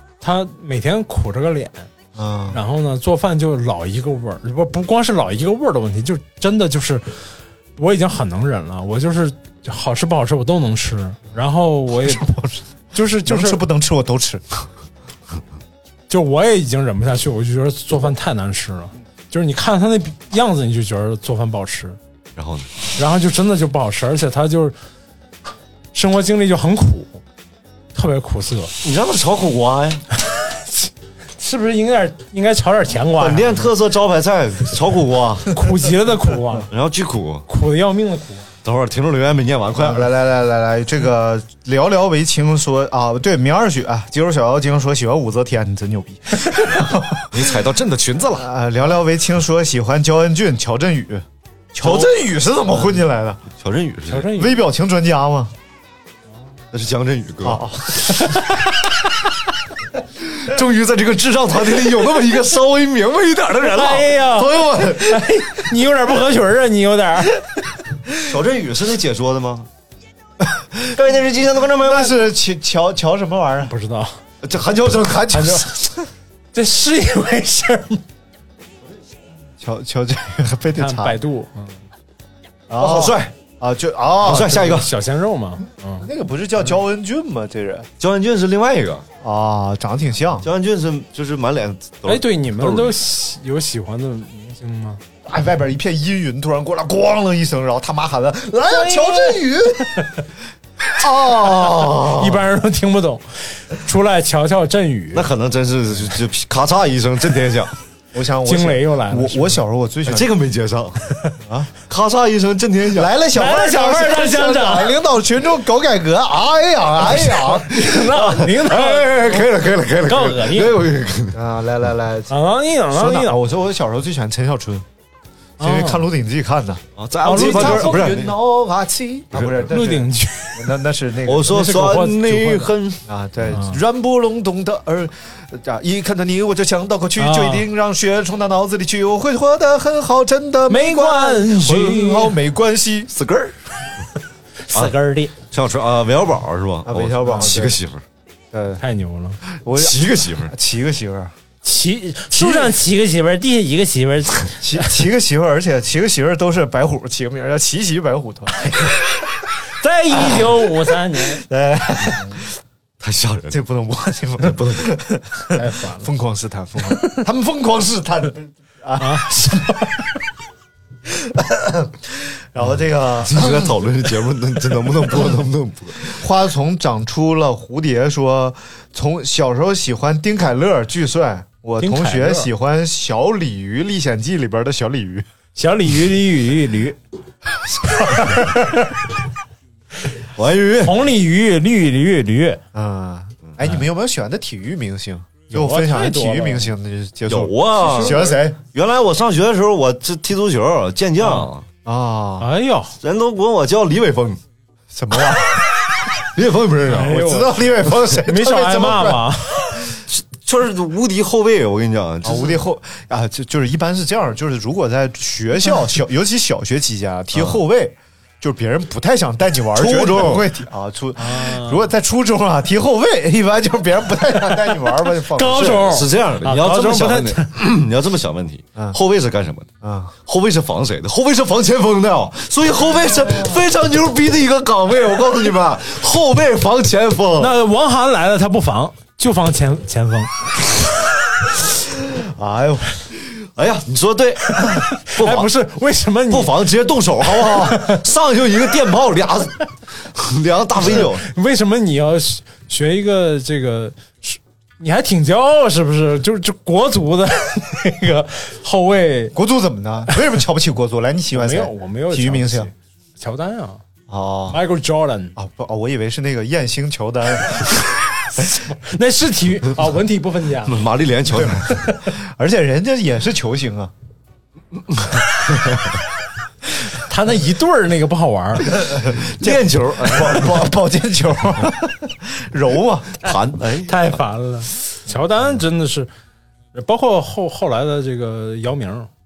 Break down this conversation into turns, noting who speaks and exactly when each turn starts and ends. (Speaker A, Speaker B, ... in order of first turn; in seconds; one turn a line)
Speaker A: 0.2-1.9
Speaker B: 2.1-2.6
Speaker A: 2.5-13.6
Speaker B: 12.0-12.6
Speaker B: 13.1-14.4
Speaker A: 16.1-22.0
Speaker C: 22.4-22.7
Speaker A: 22.9-24.8
Speaker A: 25.9-27.2
Speaker A: 27.9-28.7
Speaker C: 28.8-30.0
Speaker A: 31.4-33.7
Speaker C: 33.2-35.6
Speaker A: 35.5-36.7
Speaker C: 36.7-37.5
Speaker A: 37.5-38.5
Speaker C: 38.6-40.1
Speaker B: 39.8-47.5
Speaker C: 47.3-48.5
Speaker B: 48.4-53.4
Speaker C: 51.8-52.1
Speaker C: 53.6-54.3
Speaker A: 54.1-54.6
Speaker B: 54.3-55.5
Speaker C: 56.7-57.6
Speaker B: 57.4-58.1
Speaker A: 58.1-58.7
Speaker C: 60.2-65.2
Speaker A: 63.7-67.4
Speaker C: 68.2-69.7
Speaker B: 70.4-70.9
Speaker C: 70.9-72.2
Speaker B: 71.8-73.7
Speaker A: 73.7-74.2
Speaker C: 74.4-75.5
Speaker B: 75.1-76.1
Speaker A: 75.3-75.7
Speaker A: 76.5-78.0
Speaker B: 79.6-81.2
Speaker A: 80.7-81.8
Speaker B: 82.7-84.8
Speaker C: 82.8-83.3
Speaker C: 84.2-84.9
Speaker A: 84.3-86.1
Speaker B: 86.0-87.9
Speaker C: 88.0-89.0
Speaker B: 89.2-90.5
Speaker C: 90.4-92.9
Speaker A: 92.0-95.0
Speaker B: 95.2-100.0
Speaker A: 98.7-99.4
Speaker B: 101.0-102.2
Speaker C: 101.4-102.2
Speaker A: 102.2-105.3
Speaker C: 105.1-107.8
Speaker B: 108.1-110.3
Speaker A: 108.4-109.6
Speaker C: 110.0-111.1
Speaker B: 111.4-111.7
Speaker C: 111.9-113.1
Speaker B: 112.9-117.7
Speaker A: 113.3-115.0
Speaker C: 117.1-121.4
Speaker A: 117.7-119.5
Speaker A: 120.0-120.7
Speaker B: 121.3-122.4
Speaker A: 122.3-123.4
Speaker B: 122.9-124.8
Speaker A: 125.6-126.0
Speaker B: 125.6-131.6
Speaker C: 127.0-128.3
Speaker A: 127.2-128.1
Speaker C: 129.3-129.6
Speaker A: 129.6-130.6
Speaker C: 131.2-133.0
Speaker A: 131.5-132.7
Speaker B: 133.1-143.1
Speaker A: 133.5-133.8
Speaker A: 137.2-137.7
Speaker A: 140.7-142.3
Speaker C: 143.1-143.5
Speaker A: 144.7-145.3
Speaker C: 145.5-148.0
Speaker B: 146.8-147.8
Speaker B: 148.5-148.8
Speaker A: 148.8-149.4
Speaker B: 149.6-151.3
Speaker C: 149.7-150.5
Speaker A: 151.6-154.9
Speaker B: 152.3-152.7
Speaker B: 154.6-158.7
Speaker A: 159.8-161.4
Speaker B: 161.2-162.4
Speaker C: 163.0-163.6
Speaker B: 163.5-169.7
Speaker C: 164.4-164.9
Speaker A: 165.5-166.1
Speaker A: 169.0-170.1
Speaker B: 171.1-173.7
Speaker C: 173.2-176.1
Speaker B: 176.1-185.2
Speaker A: 181.8-182.5
Speaker A: 185.6-187.0
Speaker A: 187.8-189.0
Speaker C: 190.3-190.9
Speaker A: 190.8-192.6
Speaker B: 192.7-198.6
Speaker A: 195.5-196.7
Speaker C: 197.3-201.7
Speaker A: 197.8-198.3
Speaker A: 201.2-201.5
Speaker B: 201.8-202.5
Speaker A: 202.4-202.9
Speaker C: 203.0-204.4
Speaker B: 204.9-205.7
Speaker C: 206.3-207.2
Speaker A: 206.8-209.8
Speaker B: 207.0-209.3
Speaker C: 210.1-212.6
Speaker B: 212.2-225.9
Speaker C: 217.3-217.6
Speaker C: 219.7-220.5
Speaker A: 221.2-221.9
Speaker A: 225.3-227.5
Speaker C: 225.5-229.7
Speaker B: 229.8-230.1
Speaker C: 230.2-237.5
Speaker A: 237.4-240.5
Speaker B: 242.1-242.8
Speaker C: 243.1-245.5
Speaker A: 244.6-246.5
Speaker C: 246.3-251.2
Speaker A: 247.6-248.0
Speaker A: 250.9-259.3
Speaker B: 259.3-262.7
Speaker A: 261.3-263.8
Speaker B: 264.1-264.6
Speaker A: 264.5-265.3
Speaker B: 265.4-267.7
Speaker A: 268.3-270.8
Speaker C: 270.7-271.8
Speaker B: 271.3-273.9
Speaker A: 276.9-278.7
Speaker B: 278.7-283.1
Speaker C: 279.1-280.6
Speaker C: 283.2-284.2
Speaker A: 283.9-286.1
Speaker A: 286.7-289.1